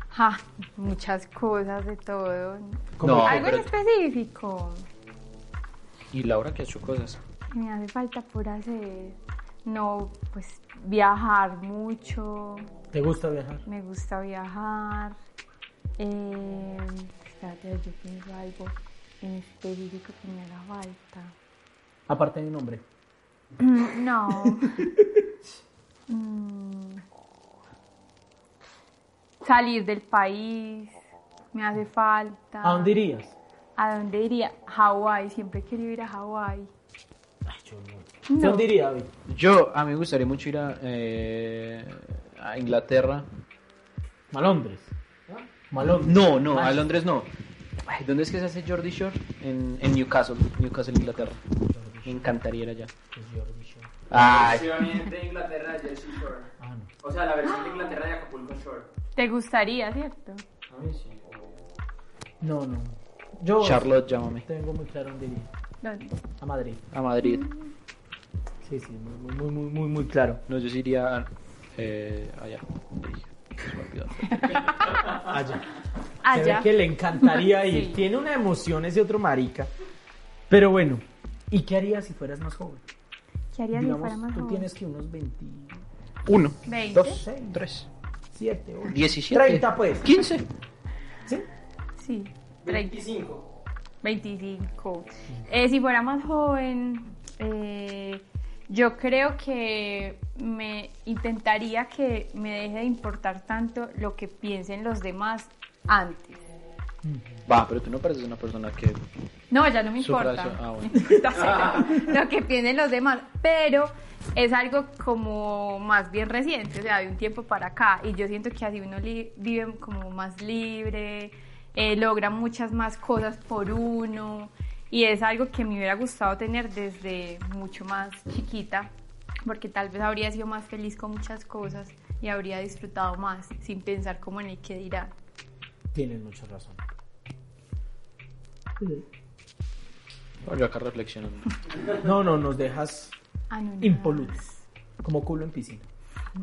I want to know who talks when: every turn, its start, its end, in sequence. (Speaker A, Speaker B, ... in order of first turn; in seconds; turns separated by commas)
Speaker A: 0.1-4.8, Speaker B: 3.0-3.6, Speaker C: 3.0-3.6, Speaker C: 6.1-7.2, Speaker A: 7.5-12.7, Speaker B: 12.9-13.6, Speaker A: 13.7-15.2, Speaker A: 16.0-21.3, Speaker B: 22.1-22.8, Speaker A: 23.6-24.9, Speaker B: 24.3-25.2, Speaker A: 26.1-27.0, Speaker A: 29.4-31.0, Speaker A: 31.5-33.0, Speaker B: 32.6-33.3, Speaker A: 33.8-36.7, Speaker B: 37.5-39.1, Speaker A: 38.3-38.7, Speaker C: 39.3-43.2, Speaker B: 44.3-46.9, Speaker C: 46.0-47.3, Speaker C: 47.8-51.4, Speaker B: 51.7-52.3, Speaker C: 52.0-52.9, Speaker B: 53.1-54.0, Speaker C: 54.1-55.0, Speaker D: 54.1-56.5, Speaker B: 56.6-56.9, Speaker D: 57.0-58.9, Speaker A: 57.5-57.9, Speaker A: 59.1-60.4, Speaker C: 60.7-61.5, Speaker B: 62.4-65.5, Speaker C: 63.6-64.4, Speaker A: 65.8-66.2, Speaker B: 66.4-66.8, Speaker C: 66.9-67.5, Speaker A: 67.2-67.5, Speaker B: 68.6-70.4, Speaker C: 70.5-74.7, Speaker A: 74.2-75.2, Speaker B: 75.1-75.7, Speaker A: 76.2-78.0, Speaker B: 76.3-79.7, Speaker B: 80.5-82.8, Speaker A: 83.5-84.7, Speaker B: 83.7-85.8, Speaker C: 86.2-87.9, Speaker A: 86.7-87.2, Speaker B: 87.0-87.6, Speaker B: 88.3-90.1, Speaker C: 88.9-90.4, Speaker A: 92.0-93.0, Speaker D: 92.6-93.4, Speaker A: 94.0-106.4, Speaker B: 107.0-107.4, Speaker C: 107.5-109.0, Speaker A: 109.5-128.9, Speaker C: 110.0-111.1, Speaker D: 111.4-111.7, Speaker A: 129.4-135.1, Speaker B: 135.9-136.9, Speaker C: 140.4-141.6, Speaker B: 142.0-143.1, Speaker A: 143.5-144.5, Speaker B: 143.8-144.4, Speaker B: 145.0-145.9